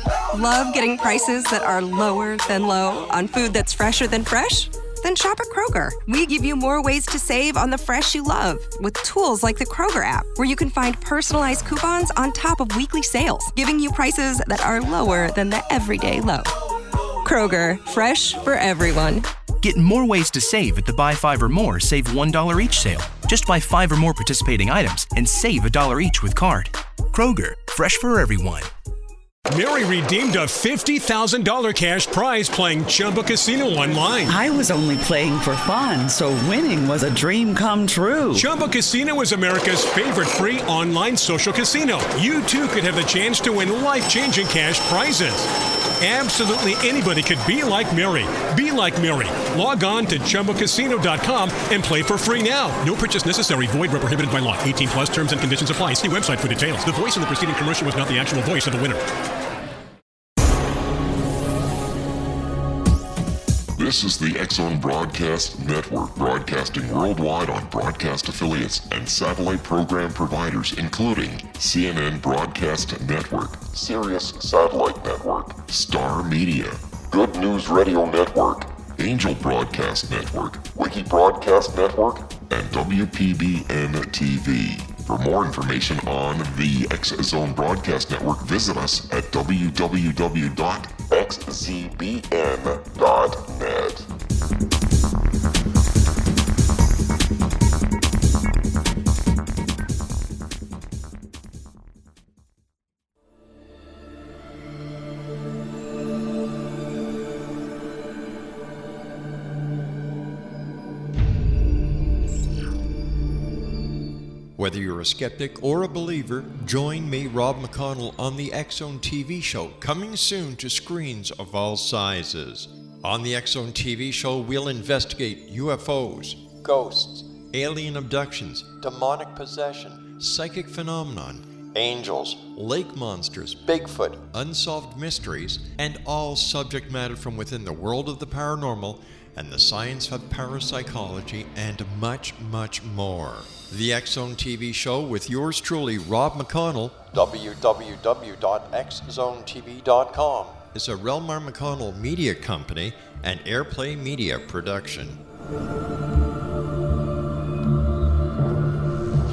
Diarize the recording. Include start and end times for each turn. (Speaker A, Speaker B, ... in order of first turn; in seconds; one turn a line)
Speaker A: 0.3-16.6
Speaker A: 17.2-19.3
Speaker B: 19.6-28.7
Speaker C: 29.5-34.4
Speaker D: 34.3-38.5
Speaker C: 38.3-59.0
Speaker E: 63.8-94.1
Speaker F: 114.6-155.2